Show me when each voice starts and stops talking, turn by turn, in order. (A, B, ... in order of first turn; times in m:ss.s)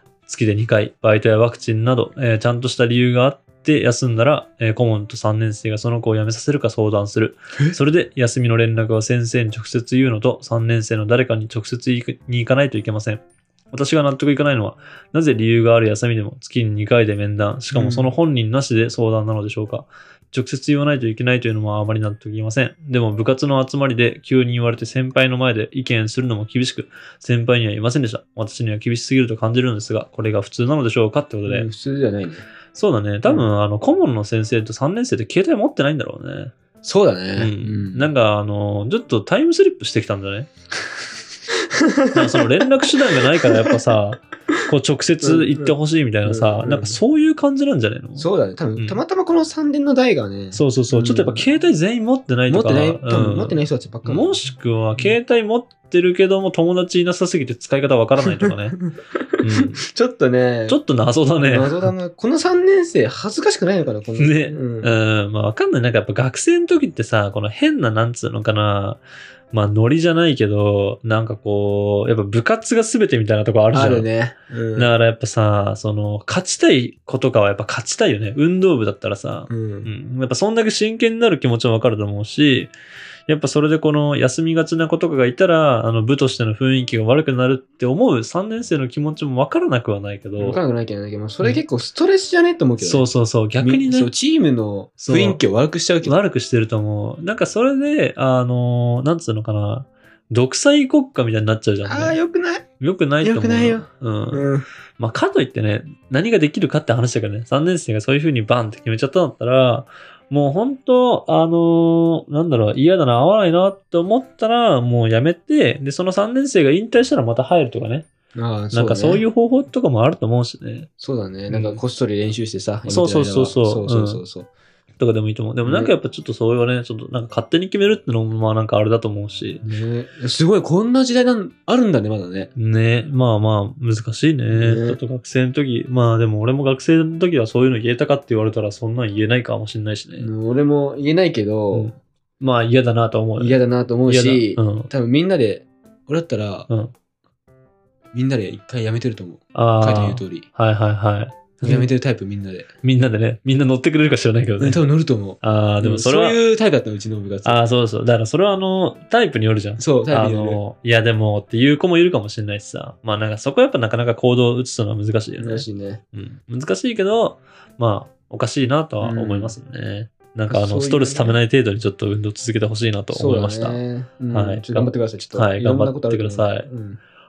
0:00.2-0:31.7 A
0:17.7-0:18.1 B
0:31.4-0:32.4 B
0:32.7-0:36.5 A
0:36.8-0:38.1 B
0:37.4-0:40.5 A
0:41.7-0:42.4 B
0:42.1-0:49.0 A
0:43.5-0:43.8 B
0:45.2-0:45.7 B
0:46.2-0:47.0 B
0:48.2-0:51.5 B
0:50.5-0:58.8 A
0:52.5-0:54.4 B
0:58.2-1:00.8 B
0:59.4-0:59.8 A
1:00.7-1:01.9 A
1:01.4-1:04.9 B
1:04.2-1:14.1 A
1:13.7-1:14.9 B
1:14.8-1:22.7 A
1:19.5-1:19.9 B
1:23.3-1:30.6 A
1:30.4-1:36.1 B
1:32.8-1:34.1 A
1:35.0-1:35.4 A
1:36.0-1:42.2 A
1:41.8-1:42.6 B
1:42.8-1:58.1 A
1:43.2-1:44.6 B
1:58.3-1:59.2 B
1:58.7-2:00.9 A
2:01.0-2:04.5 B
2:01.5-2:01.8 A
2:02.9-2:04.2 A
2:05.0-2:09.6 A
2:05.6-2:05.9 B
2:09.6-2:12.5 B
2:12.6-2:20.3 A
2:14.5-2:15.0 B
2:20.2-2:21.9 B
2:21.7-2:24.9 A
2:23.4-2:26.7 B
2:26.7-2:26.9 A
2:28.1-2:30.4 B
2:29.5-2:31.9 A
2:31.6-2:32.7 B
2:32.8-2:34.8 A
2:34.6-2:37.6 B
2:35.4-2:36.4 A
2:37.4-2:53.8 A
2:39.8-2:40.6 B
2:45.4-2:46.0 B
2:49.0-2:49.5 B
2:50.5-2:51.4 B
2:53.1-2:57.0 B
2:54.3-2:56.7 A